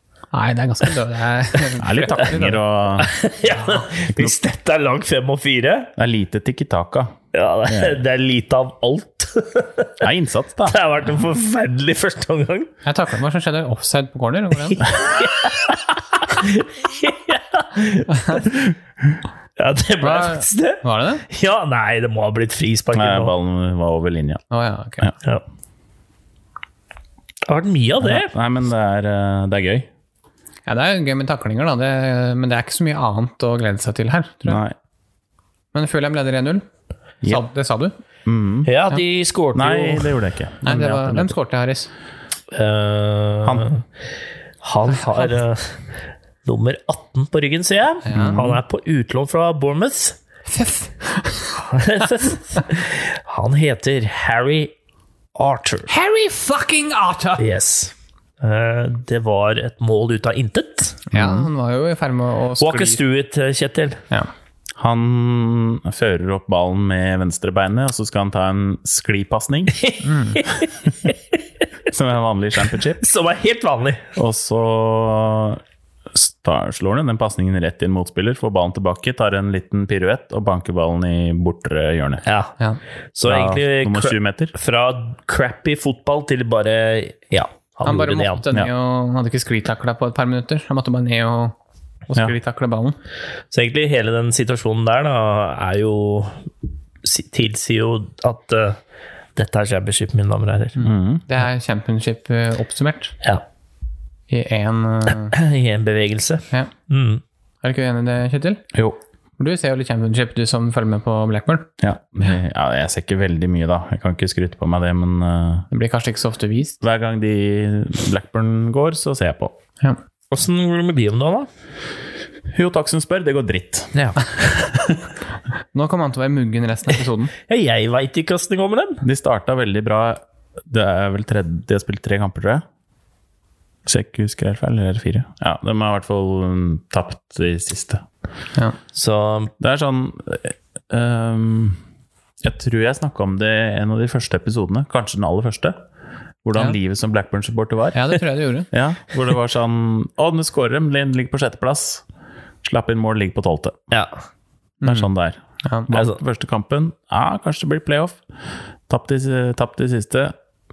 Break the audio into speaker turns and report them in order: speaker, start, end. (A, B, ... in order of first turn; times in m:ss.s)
0:00.3-0:02.6 A
0:01.8-0:03.1 B
0:03.0-0:05.9 C
0:04.1-0:04.4 B
0:06.0-0:08.0 B
0:07.3-0:10.1 C
0:10.0-0:10.8 B
0:10.6-0:12.7 C
0:12.8-0:14.8 A
0:14.7-0:18.7 C
0:18.2-0:18.4 A
0:19.6-0:23.3 C
0:20.0-0:21.2 A
0:22.9-0:24.4 B
0:24.5-0:25.1 A
0:27.5-0:28.3 C
0:28.0-0:29.9 B
0:30.7-0:34.6 A
0:34.5-0:34.8 B
0:35.7-0:36.6 A
0:37.2-0:37.9 A
0:38.2-0:38.7 B
0:38.6-0:40.1 C
0:39.5-0:41.4 B
0:40.6-0:41.9 A
0:42.5-0:43.8 C
0:43.4-0:43.7 B
0:44.6-0:45.9 C
0:46.4-0:50.2 C
0:48.1-0:48.6 A
0:50.5-0:51.6 A
0:51.7-0:54.7 C
0:55.4-0:55.9 C
0:55.9-0:57.5 A
0:57.4-1:01.3 C
1:01.1-1:03.0 A
1:02.6-1:04.0 C
1:04.8-1:09.8 B
1:09.7-1:11.2 C
1:10.0-1:10.4 A
1:11.9-1:13.0 B
1:12.8-1:14.1 C
1:14.2-1:15.6 B
1:16.1-1:22.2 B
1:22.3-1:22.6 C
1:23.2-1:28.4 C
1:23.2-1:24.5 B
1:27.8-1:31.6 A
1:32.1-1:33.0 A
1:33.5-1:36.4 C
1:37.0-1:38.8 C
1:39.4-1:40.8 C
1:40.8-1:43.2 A
1:40.8-1:41.2 B
1:44.3-1:45.4 A
1:45.3-1:47.2 C
1:47.6-1:48.6 A
1:48.7-1:49.0 B
1:49.4-1:51.7 A
1:51.8-1:55.7 B
1:55.7-1:56.8 A
1:56.8-1:59.6 B
2:00.3-2:01.5 C
2:02.5-2:05.0 B
2:05.7-2:07.3 A
2:07.5-2:09.0 C
2:09.0-2:12.6 B
2:13.9-2:18.0 B
2:18.9-2:19.5 C
2:19.6-2:21.8 B
2:22.4-2:25.8 B
2:26.4-2:28.1 B
2:27.9-2:28.7 A
2:28.7-2:32.0 B
2:32.6-2:33.9 B
2:34.8-2:35.1 A
2:34.8-2:38.2 B
2:35.6-2:35.9 A
2:35.9-2:36.2 C
2:38.9-2:40.3 B